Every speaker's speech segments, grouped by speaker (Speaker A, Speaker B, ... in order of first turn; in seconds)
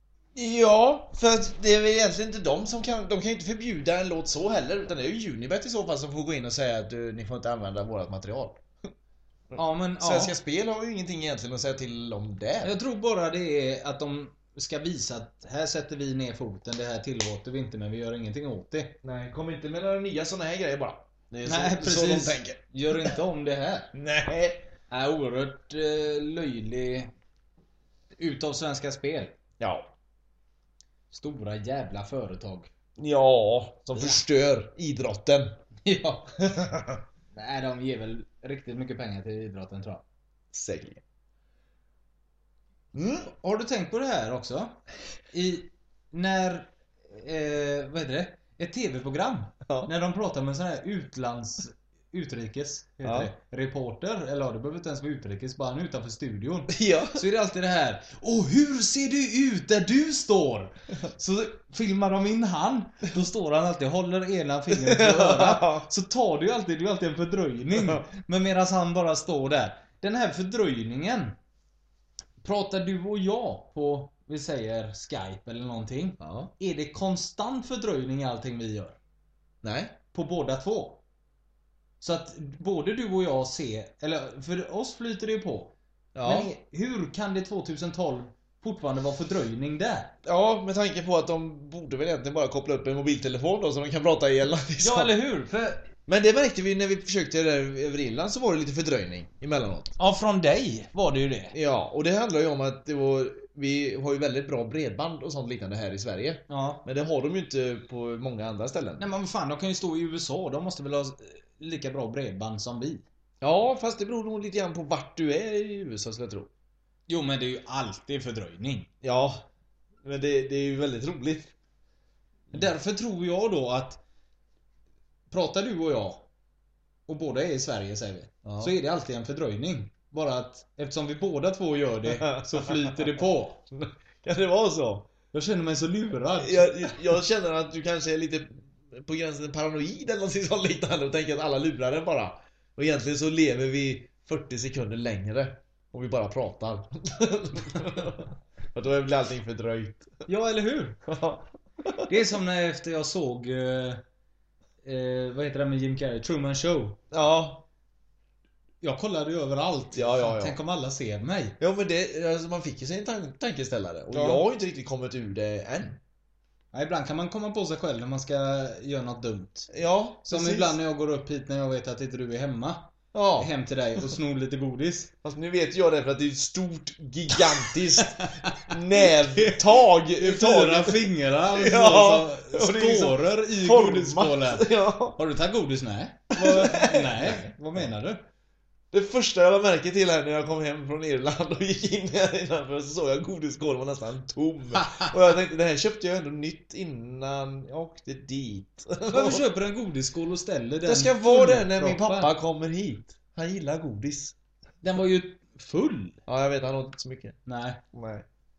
Speaker A: 0.3-8.6, 9.5-12.8, 19.0-23.1, 23.9-24.6, 29.6-29.9, 33.0-35.5, 36.4-37.0, 40.5-41.0, 42.9-43.3, 49.7-49.9, 53.0-53.3, 56.7-57.2, 64.7-65.9, 67.7-68.1, 76.2-76.5, 79.6-79.9, 86.1-86.5, 90.2-95.2, 96.1-99.9, 101.5-109.1, 113.4-116.5, 119.0-119.5, 120.0-121.5, 128.4-128.7, 132.1-133.2, 133.7-135.1, 136.4-150.1, 151.1-152.1, 157.1-157.7, 159.9-160.6, 161.6-166.0, 169.7-170.8, 173.1-173.5, 175.2-185.2, 186.3-187.5, 188.9-199.5, 200.8-204.3, 206.2-207.4, 207.9-208.2
Speaker B: 9.5-10.3, 12.6-19.0, 21.4-23.9, 24.9-27.1, 28.1-29.4, 31.1-32.7, 33.9-34.2, 35.8-36.2, 37.3-40.0, 43.3-44.8, 45.3-71.3, 72.4-79.0, 80.1-81.0, 82.0-90.1, 94.8-95.8, 100.0-101.5, 106.5-106.8, 109.0-113.0, 117.1-118.9, 122.5-124.0, 125.3-126.2, 127.1-133.6, 135.3-137.0, 150.2-151.0, 152.1-154.0, 154.8-157.0, 158.8-161.6, 164.1-164.4, 166.7-169.7, 170.2-175.1, 178.0-178.7, 180.2-188.2, 194.8-195.1, 199.1-202.3, 204.8-206.2, 207.4-207.8